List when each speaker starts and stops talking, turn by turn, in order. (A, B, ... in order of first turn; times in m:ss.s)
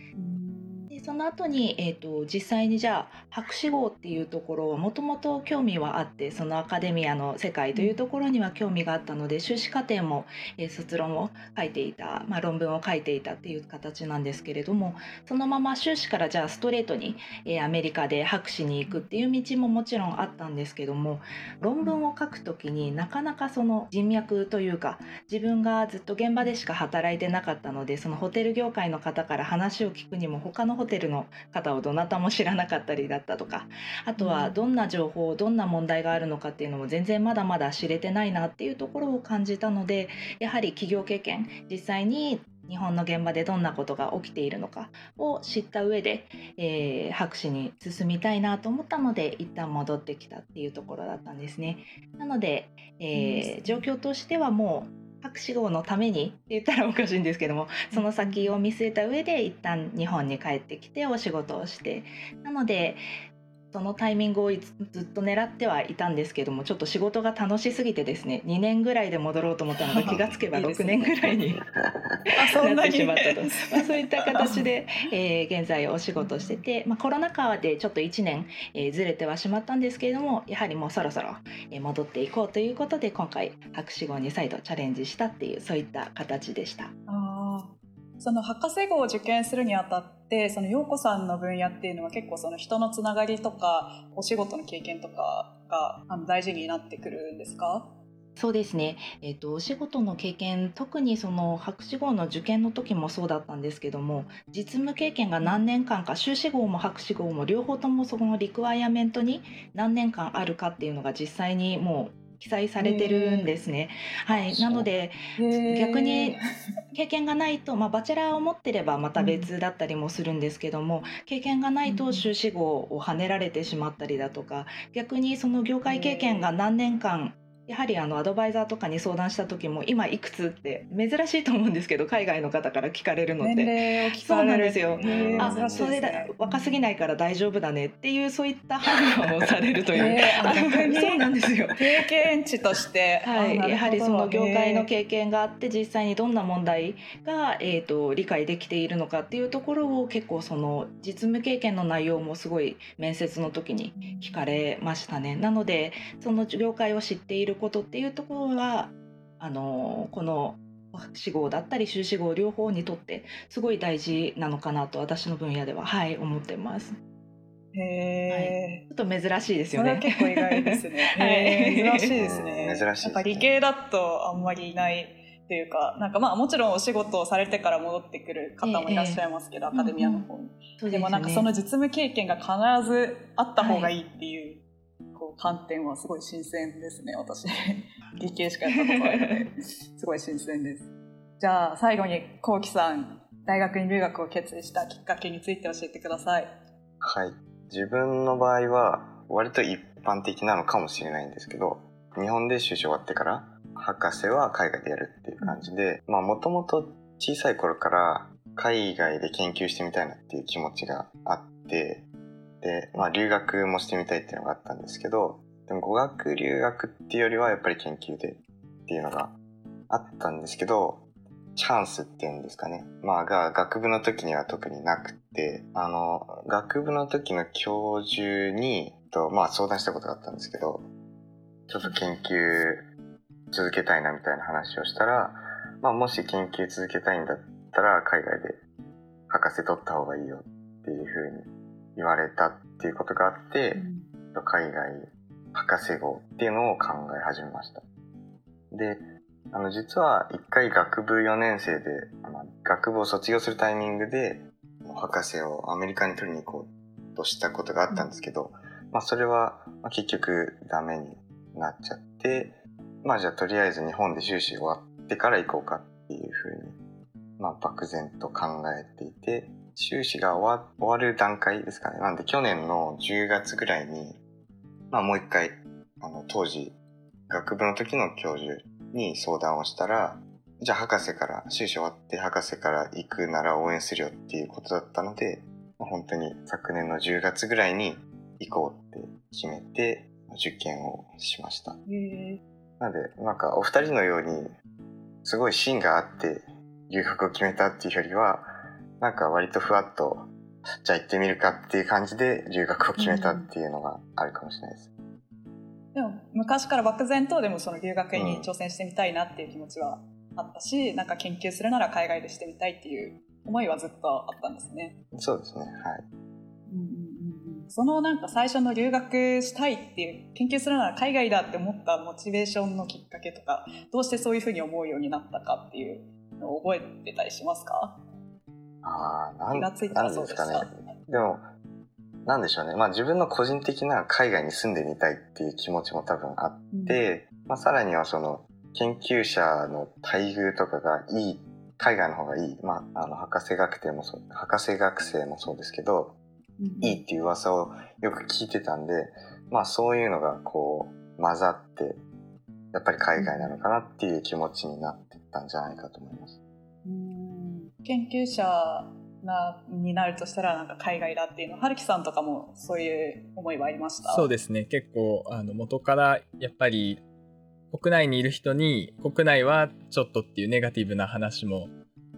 0:00.2-0:00.9 A
0:00.9-1:03.0 B
0:34.2-0:34.6 A
0:53.1-0:53.9 A
0:57.9-0:58.6 A
1:03.7-1:11.6 B
1:09.8-1:11.2 A
1:12.3-1:14.7 A
1:12.6-1:26.9 B
1:16.2-1:16.6 A
1:27.1-1:38.0 A
1:38.4-1:56.4 B
1:52.8-1:53.6 A
1:54.3-1:54.9 C
1:55.4-1:56.4 A
1:56.9-2:21.8 B
1:59.2-1:59.5 A
2:01.9-2:02.3 A
2:05.9-2:06.5 A
2:13.4-2:16.8 A
2:15.0-2:16.0 C
2:19.9-2:24.9 A
2:23.2-2:47.0 B
2:34.0-2:34.6 A
2:47.7-2:48.8 A
2:48.3-2:52.1 B
2:49.7-3:16.5 A
2:52.1-2:53.5 C
2:58.6-3:00.3 B
3:00.8-3:01.5 B
3:03.6-3:03.9 B
3:08.7-3:09.5 B
3:17.0-3:32.0 C
3:25.4-3:25.7 A
3:32.6-3:39.4 C
3:39.9-3:41.0 C
3:41.6-3:50.9 C
3:51.7-3:52.9 C
3:53.5-3:58.6 C
3:59.3-4:03.8 C
4:03.7-4:04.1 A
4:04.3-4:07.8 C
4:08.7-4:26.8 C
4:17.9-4:18.2 A
4:27.4-4:34.2 C
4:34.9-4:36.8 C
4:37.3-4:51.8 C
4:51.9-4:52.4 A
4:52.8-4:54.6 C
4:55.2-5:04.9 C
5:03.0-5:03.5 A
5:05.9-5:15.0 A
5:08.1-5:08.5 C
5:15.1-5:16.0 C
5:16.7-5:28.0 A
5:28.8-5:31.5 C
5:29.5-5:30.7 A
5:32.2-5:46.2 C
5:36.7-5:37.1 A
5:46.6-5:47.0 A
5:46.8-5:52.0 C
5:52.7-5:56.4 C
5:53.2-5:53.6 A
5:56.8-6:04.3 A
6:04.0-6:07.0 D
6:07.7-6:11.7 D